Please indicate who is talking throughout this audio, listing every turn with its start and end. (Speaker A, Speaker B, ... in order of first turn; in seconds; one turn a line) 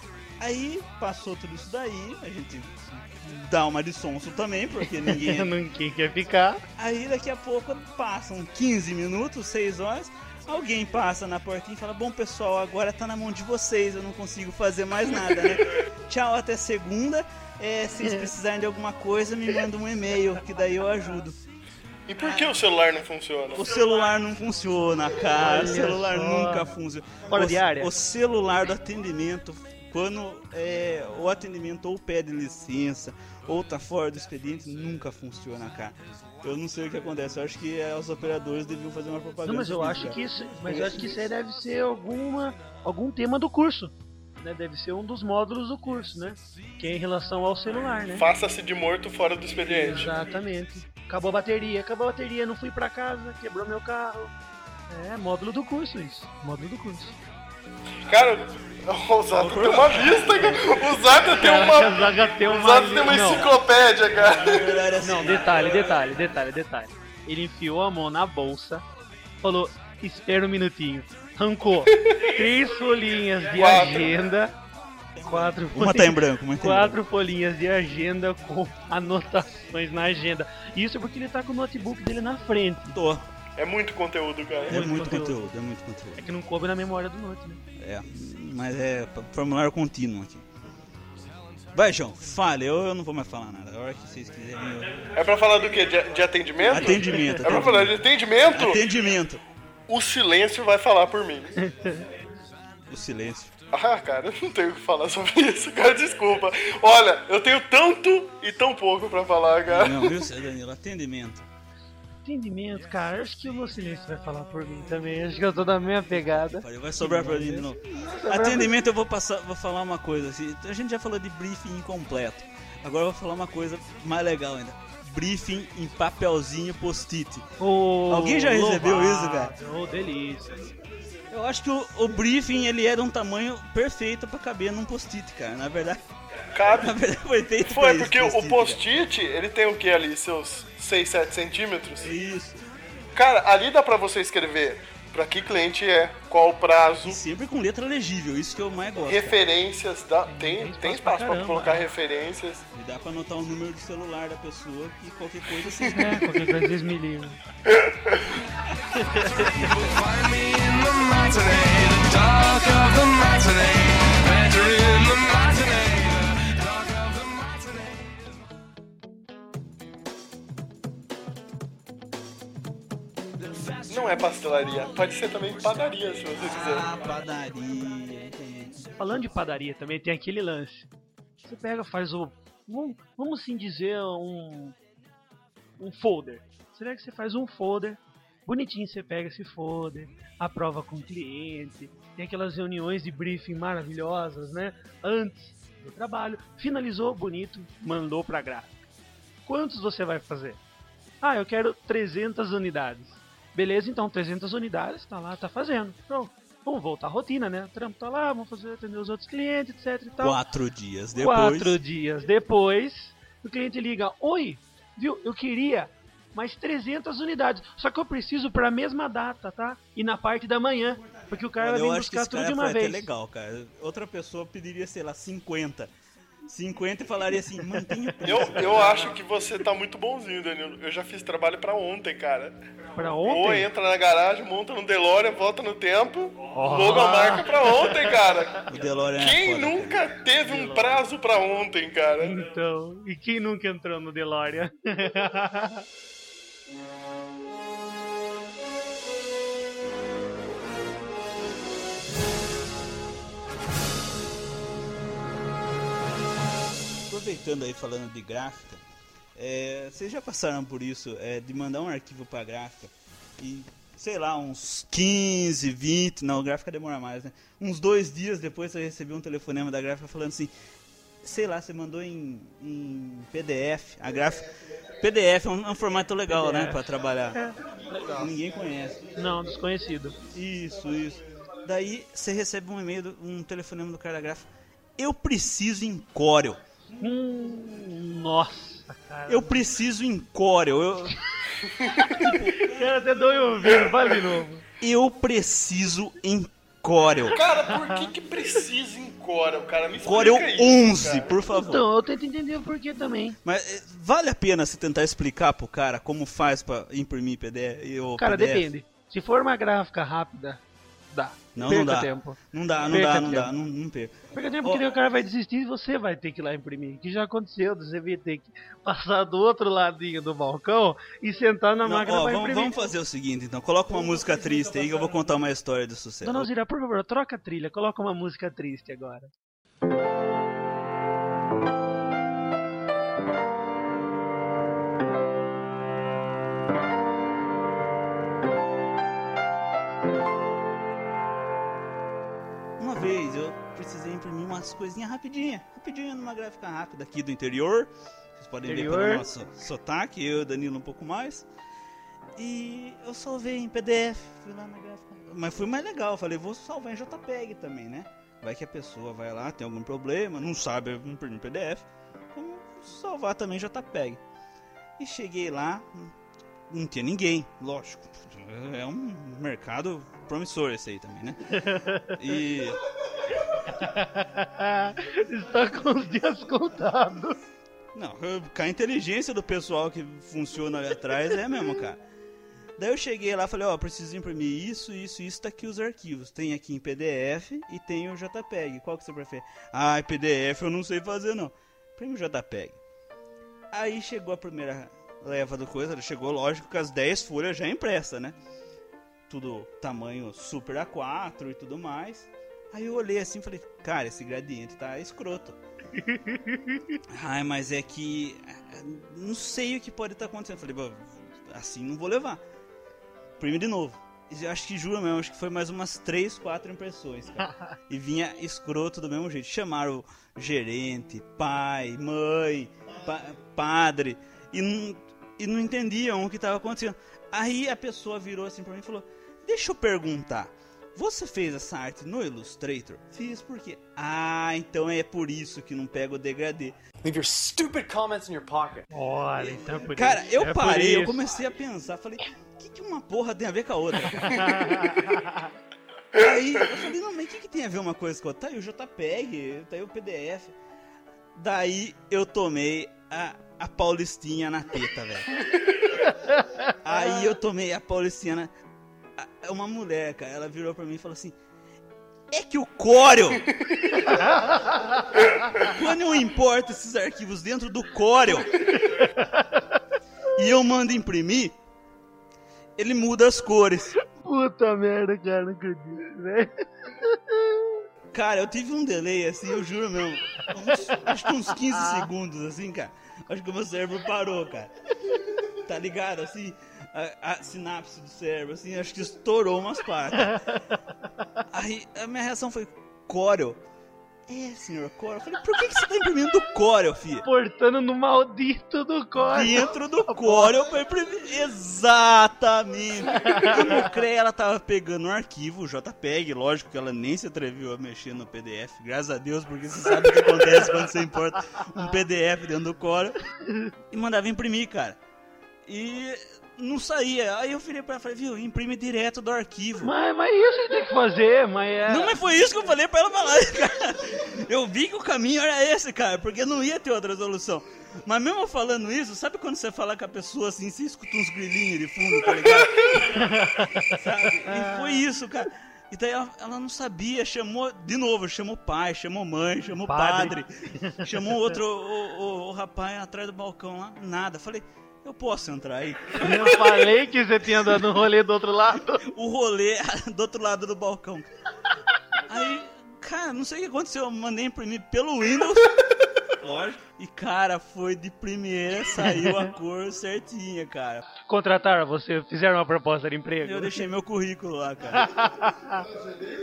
Speaker A: 0.4-5.5
Speaker B: 5.1-6.6
Speaker A: 6.8-21.4
Speaker C: 22.1-23.6
Speaker A: 22.2-22.5
Speaker A: 23.5-40.2
Speaker B: 25.4-26.7
Speaker B: 27.3-27.9
Speaker B: 39.4-48.3
Speaker C: 48.1-50.1
Speaker B: 49.6-54.3
Speaker B: 54.9-57.2
Speaker C: 58.1-64.8
Speaker A: 59.4-60.5
Speaker B: 61.3-63.5
Speaker A: 64.1-66.0
Speaker B: 65.0-68.8
Speaker B: 69.4-74.5
Speaker C: 71.9-72.3
Speaker C: 73.6-74.1
Speaker A: 75.2-77.0
Speaker B: 75.2-82.9
Speaker A: 82.9-83.2
Speaker C: 83.6-84.8
Speaker B: 84.7-85.3
Speaker A: 84.7-86.2
Speaker B: 86.2-87.6
Speaker A: 87.8-90.4
Speaker A: 91.7-95.0
Speaker C: 95.1-98.8
Speaker A: 96.6-99.4
Speaker B: 97.1-97.4
Speaker C: 99.9-101.5
Speaker B: 101.6-102.0
Speaker A: 102.9-103.5
Speaker C: 103.7-110.3
Speaker A: 109.7-111.5
Speaker B: 112.2-118.7
Speaker A: 116.4-127.5
Speaker B: 127.6-130.7
Speaker A: 128.1-129.5
Speaker A: 131.3-136.0
Speaker C: 136.5-136.9
Speaker A: 136.7-138.8
Speaker C: 137.7-142.1
Speaker A: 142.0-142.6
Speaker C: 143.1-147.2
Speaker A: 147.0-149.4
Speaker C: 149.1-152.6
Speaker B: 150.2-151.8
Speaker A: 152.7-156.4
Speaker B: 155.9-157.4
Speaker C: 157.7-158.1
Speaker D: 159.3-168.2
Speaker D: 173.4-174.9
Speaker C: 173.9-176.9
Speaker A: 176.4-178.9
Speaker B: 179.0-180.9
Speaker B: 181.4-184.8
Speaker B: 185.8-198.8
Speaker B: 199.4-200.6
Speaker B: 201.2-210.4
Speaker A: 210.2-211.8
Speaker B: 211.2-223.1
Speaker A: 221.6-225.9
Speaker A: 226.5-228.9
Speaker C: 228.2-232.5
Speaker B: 232.9-233.7
Speaker C: 233.2-238.6
Speaker B: 236.5-238.2
Speaker A: 238.7-240.0
Speaker C: 239.1-242.3
Speaker B: 240.4-240.9
Speaker B: 242.2-245.8
Speaker A: 257.1-258.8
Speaker A: 259.4-270.5
Speaker A: 271.2-274.5
Speaker A: 275.0-279.1
Speaker B: 276.3-276.8
Speaker B: 279.1-280.1
Speaker A: 280.3-286.6
Speaker B: 287.0-289.6
Speaker A: 289.3-291.1
Speaker C: 291.6-292.3
Speaker A: 292.2-293.9
Speaker B: 292.6-294.6
Speaker A: 294.8-297.4
Speaker C: 297.3-301.3
Speaker A: 300.0-301.8
Speaker B: 301.6-303.4
Speaker A: 303.4-308.7
Speaker B: 308.2-312.4
Speaker A: 311.5-314.9
Speaker B: 312.9-313.5
Speaker B: 314.3-322.7
Speaker A: 321.8-326.5
Speaker B: 326.2-329.3
Speaker A: 342.8-351.5
Speaker B: 348.7-349.2
Speaker A: 352.4-364.2
Speaker A: 365.0-366.1
Speaker A: 366.7-372.8
Speaker B: 371.6-372.2
Speaker B: 373.7-377.4
Speaker A: 377.9-382.0
Speaker A: 382.8-392.8
Speaker A: 393.7-398.4
Speaker A: 399.3-405.6
Speaker B: 406.0-407.0
Speaker A: 407.1-412.4
Speaker A: 413.4-436.7
Speaker D: 437.1-438.8
Speaker B: 438.9-441.2
Speaker A: 439.9-444.8
Speaker B: 444.2-445.4
Speaker A: 446.1-450.5
Speaker A: 451.3-455.3
Speaker A: 456.8-458.5
Speaker A: 459.2-461.3
Speaker A: 462.3-463.5
Speaker C: 463.7-464.0
Speaker B: 464.1-465.2
Speaker A: 465.6-468.7
Speaker B: 468.8-469.7
Speaker A: 470.4-471.6
Speaker A: 472.8-474.0
Speaker B: 474.1-477.8
Speaker A: 478.1-484.7
Speaker A: 485.6-490.4
Speaker A: 491.5-493.6
Speaker A: 494.3-497.2
Speaker B: 497.2-500.5
Speaker A: 499.2-513.2
Speaker A: 513.9-515.0
Speaker A: 515.7-519.9
Speaker B: 519.8-522.2
Speaker A: 521.9-533.2
Speaker C: 532.5-533.0
Speaker B: 533.1-533.9
Speaker A: 533.8-540.5
Speaker B: 534.5-535.0
Speaker B: 539.9-541.0
Speaker A: 541.0-546.6
Speaker B: 546.2-549.0
Speaker A: 549.0-551.3
Speaker A: 552.3-555.8
Speaker A: 556.3-561.0
Speaker B: 561.3-563.8
Speaker A: 563.4-565.1
Speaker B: 565.0-565.9